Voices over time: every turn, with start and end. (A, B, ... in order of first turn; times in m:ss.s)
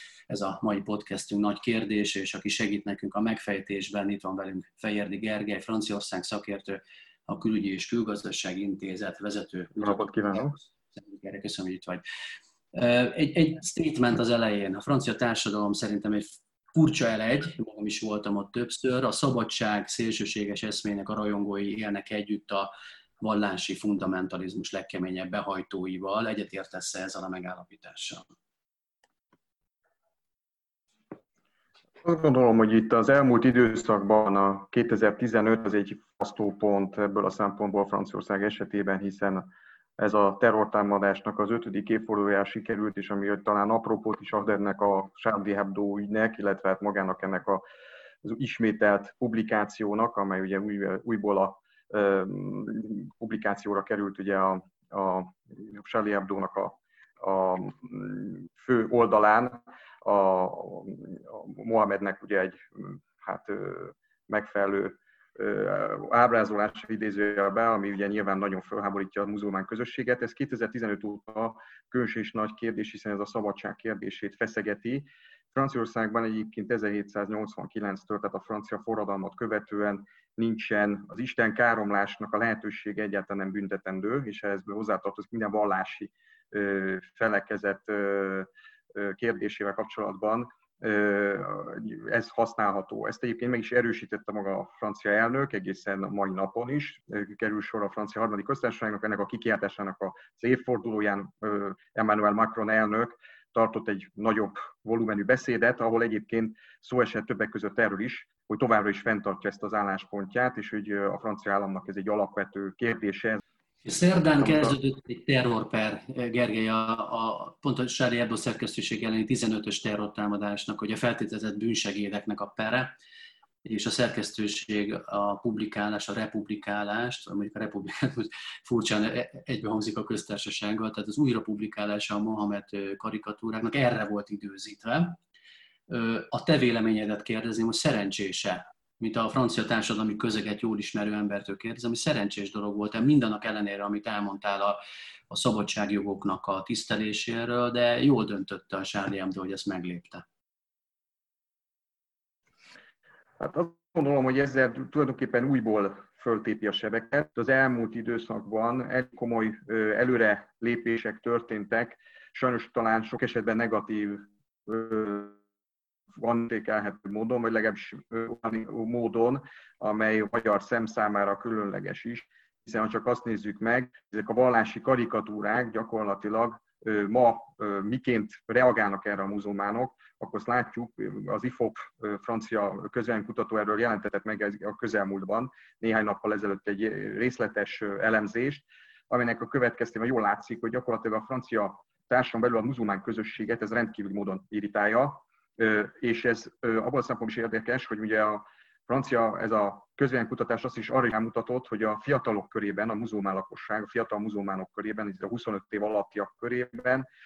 0:00.3-0:12.0 A
0:09.8-0:10.6 B
0:12.7-0:28.3 A
0:32.0-0:47.6 B
0:48.2-1:53.4 B
1:53.8-2:03.0 A
1:54.4-1:54.8 B
2:03.6-2:15.2 A
2:15.9-2:30.3 A
2:33.4-2:45.4 B
2:46.2-3:27.1 B